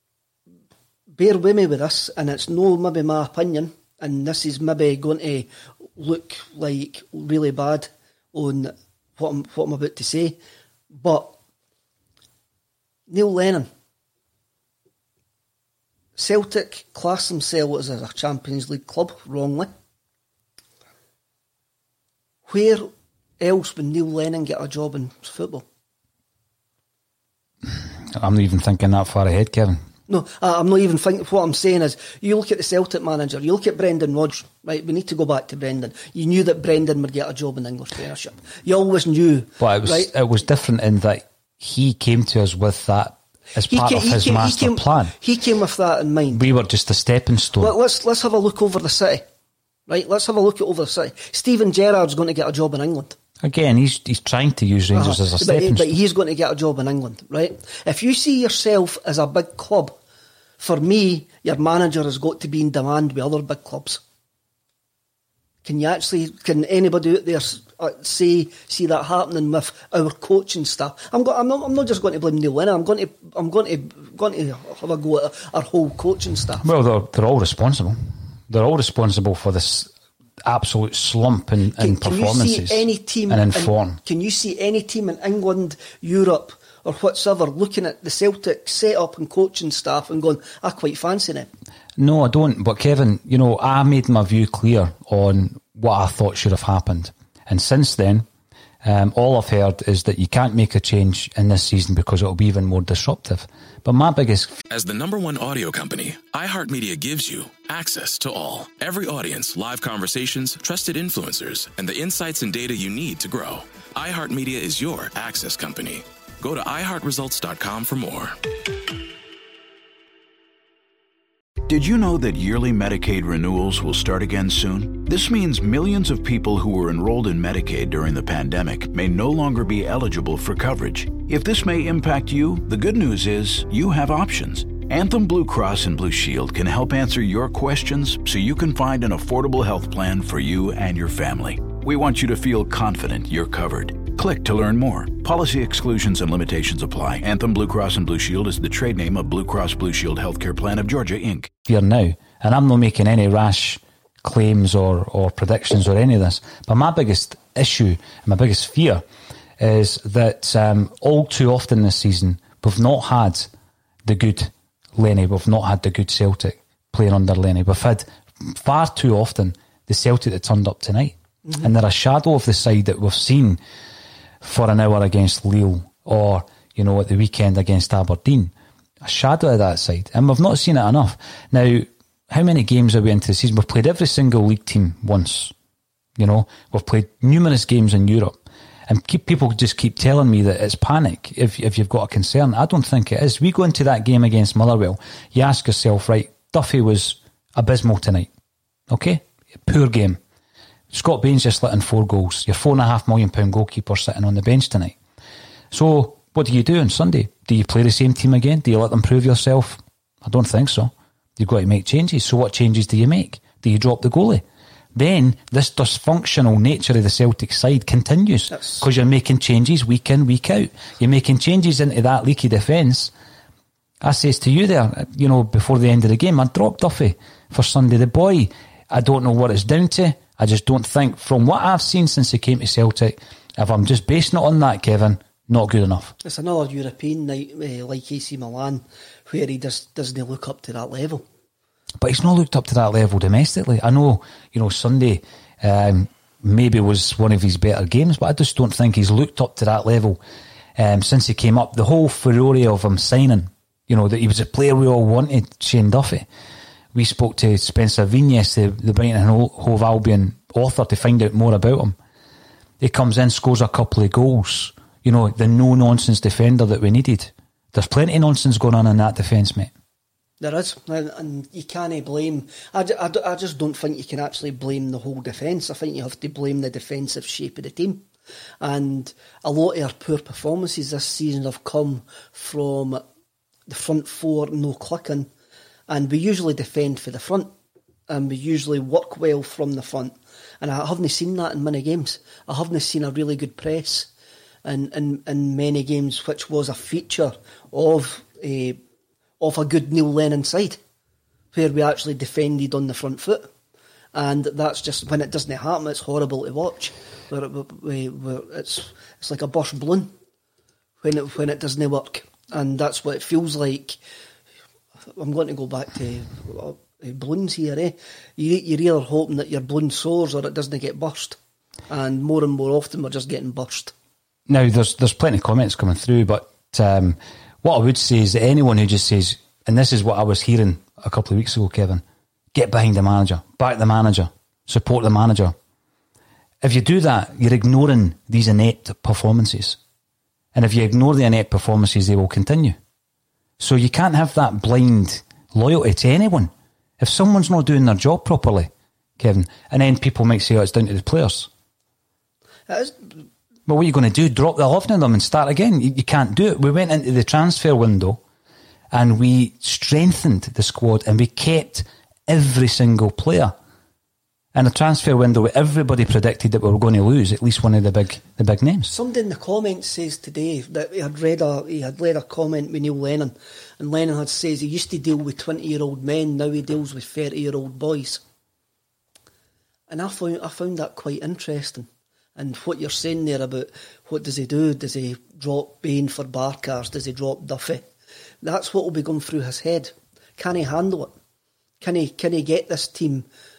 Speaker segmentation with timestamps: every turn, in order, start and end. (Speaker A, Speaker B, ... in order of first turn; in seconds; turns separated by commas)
Speaker A: 1.1-10.4, Speaker A: 10.9-11.3, Speaker A: 13.1-13.7, Speaker A: 16.1-19.7, Speaker A: 22.5-22.9, Speaker A: 23.4-25.6, Speaker B: 27.6-29.8, Speaker A: 30.1-40.1, Speaker B: 39.6-45.1, Speaker A: 43.6-46.4, Speaker B: 46.3-47.7, Speaker A: 47.6-49.2, Speaker A: 49.9-53.2, Speaker B: 53.4-55.9, Speaker A: 54.9-60.0, Speaker A: 60.6-64.0, Speaker A: 65.6-76.7, Speaker B: 76.6-79.9, Speaker B: 80.4-84.0, Speaker A: 81.8-91.5, Speaker B: 92.0-98.2, Speaker B: 98.8-104.6, Speaker C: 104.7-118.3, Speaker D: 121.7-151.5, Speaker B: 151.7-159.0, Speaker B: 159.6-163.5, Speaker B: 164.0-173.6, Speaker B: 174.4-185.5, Speaker B: 186.2-198.3, Speaker B: 198.9-200.2, Speaker B: 200.9-205.0, Speaker B: 205.7-223.1, Speaker B: 224.0-236.1, Speaker A: 236.2-241.2, Speaker B: 242.0-250.2, Speaker B: 250.8-256.3, Speaker B: 256.9-261.9, Speaker B: 262.8-269.7, Speaker A: 270.4-278.0, Speaker A: 278.6-283.0, Speaker A: 283.7-285.3, Speaker A: 285.9-287.5, Speaker A: 288.1-294.1, Speaker A: 294.6-298.8, Speaker A: 299.4-300.8, Speaker A: 301.5-303.5, Speaker A: 304.1-310.1, Speaker A: 311.0-314.0, Speaker A: 315.1-321.4, Speaker A: 321.9-323.9, Speaker B: 324.5-335.5, Speaker B: 336.6-339.8, Speaker B: 340.5-342.8, Speaker B: 343.6-351.5, Speaker A: 352.7-353.0, Speaker B: 353.7-358.2, Speaker B: 358.9-363.5, Speaker B: 364.5-368.9, Speaker A: 368.8-378.2, Speaker A: 379.9-387.9, Speaker A: 388.4-391.1, Speaker A: 391.8-393.3